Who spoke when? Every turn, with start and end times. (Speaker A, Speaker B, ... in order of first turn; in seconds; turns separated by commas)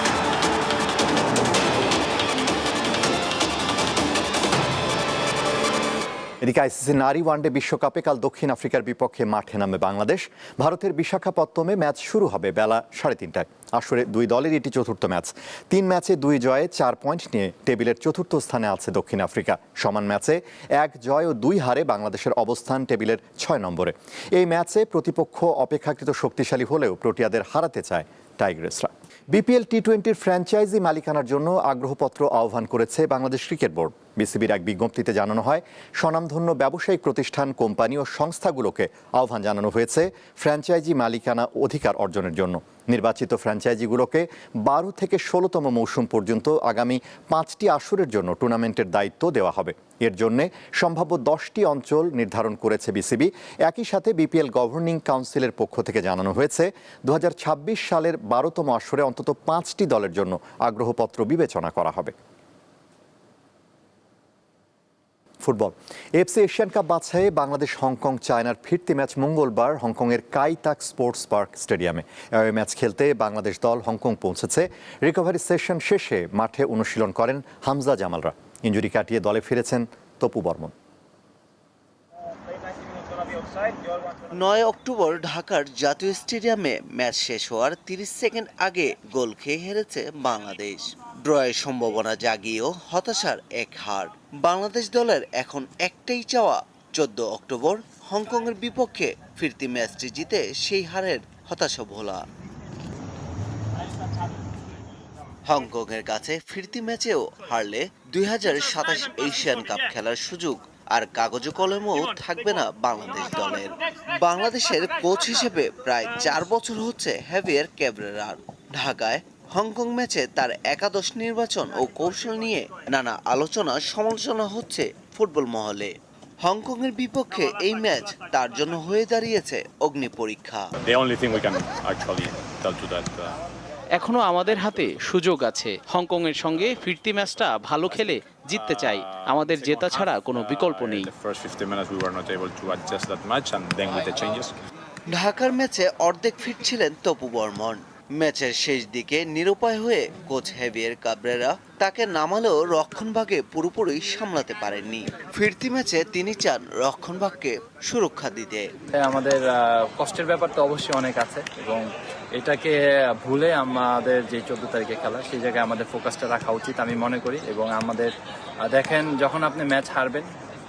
Speaker A: 6.4-62.1, Speaker A: 65.4-80.7, Speaker B: 84.3-102.2, Speaker B: 105.5-130.7, Speaker C: 130.8-133.4, Speaker D: 134.0-141.1, Speaker C: 138.5-144.5, Speaker B: 145.1-158.7, Speaker E: 159.0-168.1, Speaker E: 168.6-170.3